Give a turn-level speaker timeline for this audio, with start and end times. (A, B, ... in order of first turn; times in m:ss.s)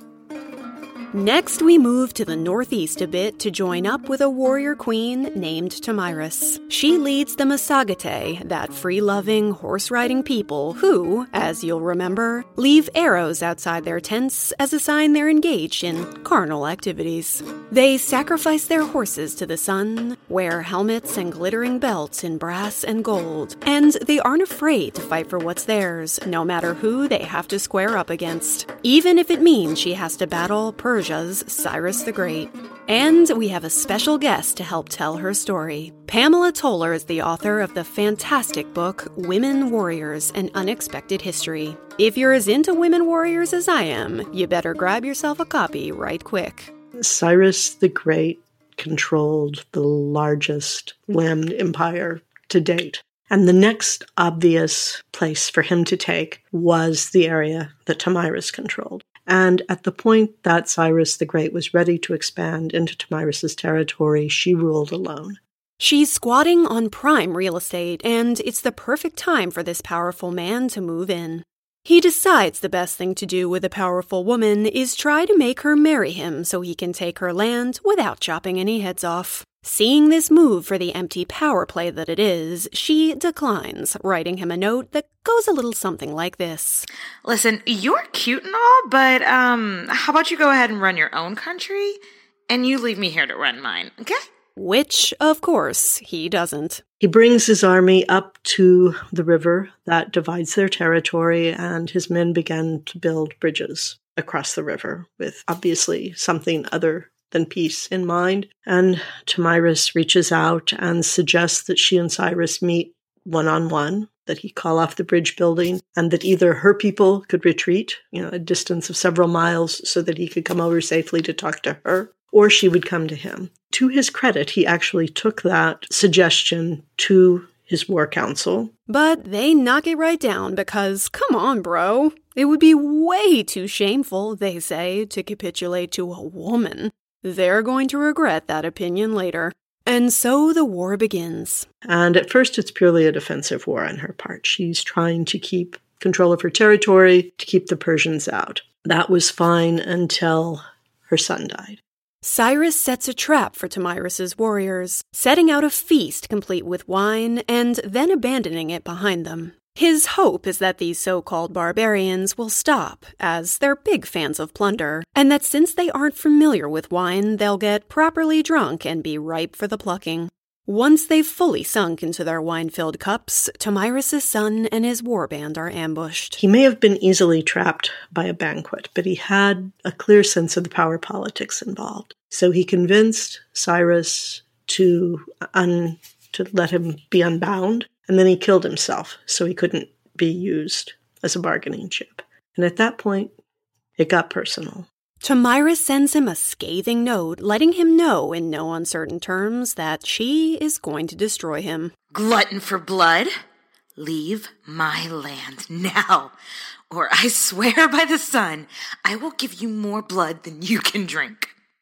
0:01.1-0:46.7 A
0:47.0-1:05.4 B
1:05.8-1:26.9 A
1:27.2-1:32.0 C
1:32.5-1:34.2 C
1:34.6-1:36.8 A
1:37.0-2:08.7 B
2:08.9-2:21.7 A
2:21.9-2:31.8 B
2:32.2-2:56.4 A
2:56.4-3:13.3 B
3:14.0-3:14.9 B
3:15.2-3:21.9 A
3:22.1-3:23.3 C
3:24.0-3:26.3 C
3:26.9-3:31.5 C